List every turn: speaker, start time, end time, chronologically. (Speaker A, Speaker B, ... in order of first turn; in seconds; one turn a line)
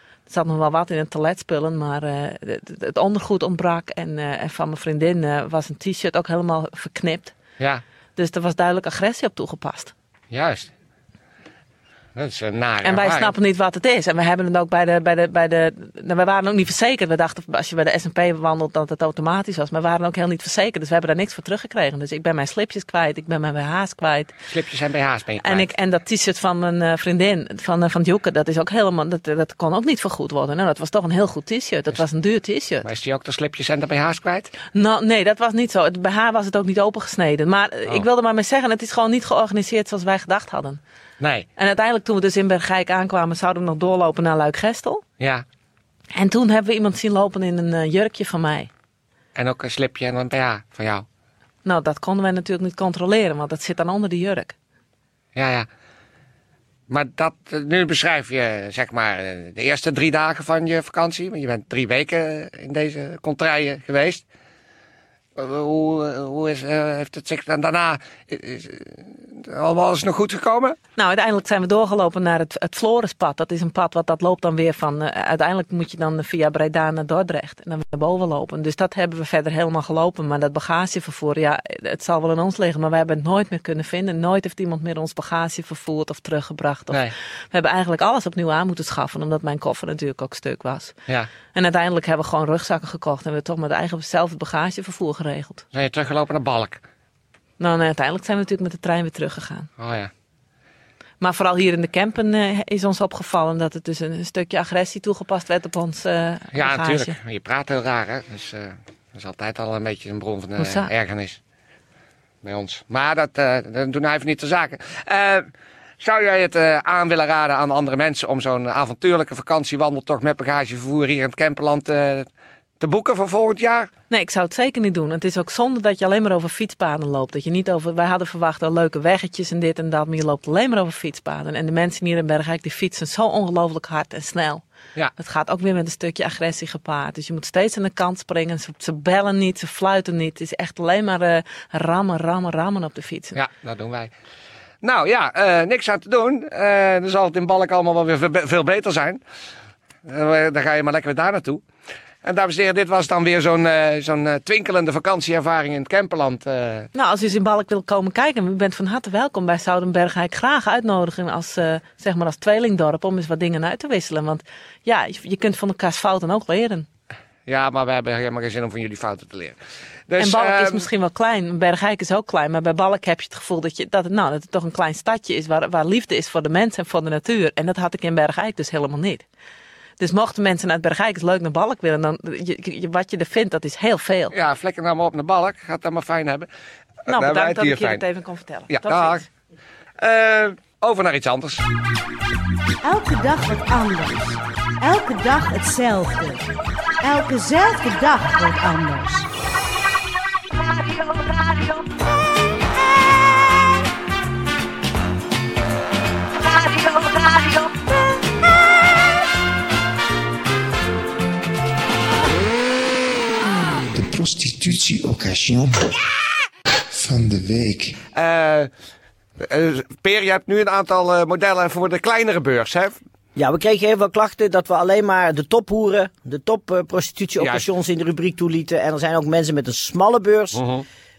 Speaker A: 0.3-7.3
Speaker A: 8.2-9.9
Speaker B: 10.3-10.7
Speaker B: 12.1-13.3
Speaker A: 12.8-24.4
Speaker B: 24.5-25.7
Speaker A: 25.4-32.9
Speaker B: 32.8-34.5
Speaker A: 34.7-40.8
Speaker B: 41.2-41.5
Speaker A: 41.6-45.0
Speaker B: 45.2-45.5
Speaker A: 46.1-48.7
Speaker B: 49.4-51.1
Speaker A: 51.6-54.5
Speaker B: 55.4-55.7
Speaker B: 56.9-64.2
Speaker B: 65.4-70.8
Speaker A: 71.0-91.0
Speaker A: 91.5-95.6
Speaker B: 95.7-96.8
Speaker A: 97.6-99.7
Speaker B: 99.8-100.1
Speaker A: 101.2-107.1
Speaker B: 106.5-111.4
Speaker A: 110.6-110.9
Speaker B: 112.4-115.5
Speaker B: 116.0-122.3
Speaker B: 122.8-123.9
Speaker A: 124.1-134.6
Speaker A: 135.2-143.4
Speaker B: 143.3-144.1
Speaker B: 144.8-149.2
Speaker B: 150.1-151.6
Speaker B: 152.2-156.9
Speaker A: 156.9-166.9
Speaker B: 167.5-169.6
Speaker B: 170.1-170.9
Speaker A: 170.2-179.2
Speaker A: 180.0-184.3
Speaker B: 184.3-186.5
Speaker B: 187.1-188.0
Speaker A: 187.1-189.2
Speaker B: 188.7-189.2
Speaker B: 190.0-191.6
Speaker C: 192.8-196.5
Speaker C: 197.0-199.3
Speaker C: 200.6-201.9
Speaker C: 206.7-207.6
Speaker D: 213.9-215.8
Speaker D: 216.9-217.9
Speaker B: 218.1-218.7
Speaker B: 219.4-223.0
Speaker E: 223.4-230.6
Speaker B: 227.4-227.7
Speaker B: 230.5-230.8